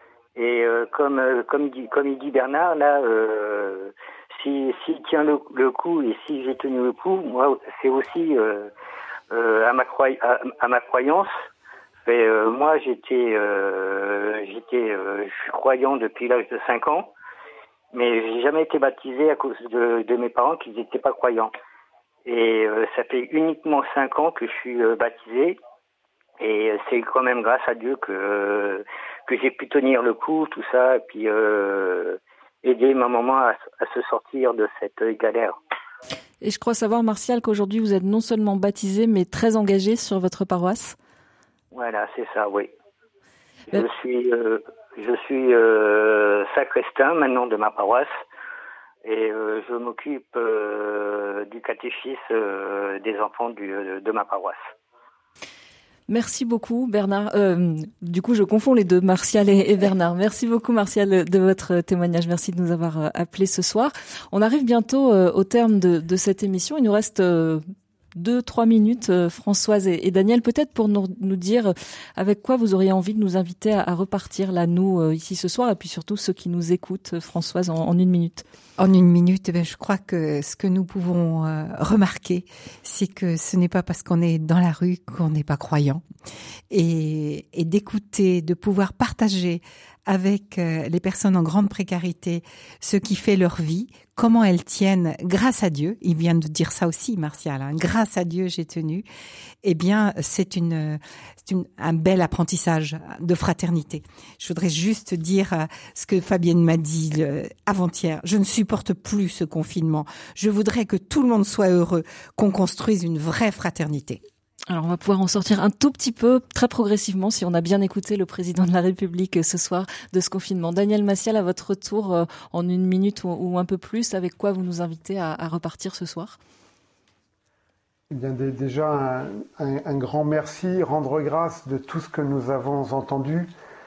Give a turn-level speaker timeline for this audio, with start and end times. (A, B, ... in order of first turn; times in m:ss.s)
0:00.4-0:08.7 A
0:09.3-0:11.3 A
0:12.0-0:17.1 A
0:17.9-0:21.5 A
0:22.2-0:25.6 A
0:26.4-0:35.6 A
0:36.4-0:41.0 B
0:41.7-0:42.7 A
0:43.7-0:48.2 A
0:49.0-0:54.7 A
0:56.1-1:07.6 B
1:08.2-1:18.4 B
1:18.8-1:26.0 C
1:26.7-1:39.0 C
1:39.6-1:54.2 C
1:54.7-2:06.4 B
2:08.1-2:13.5 D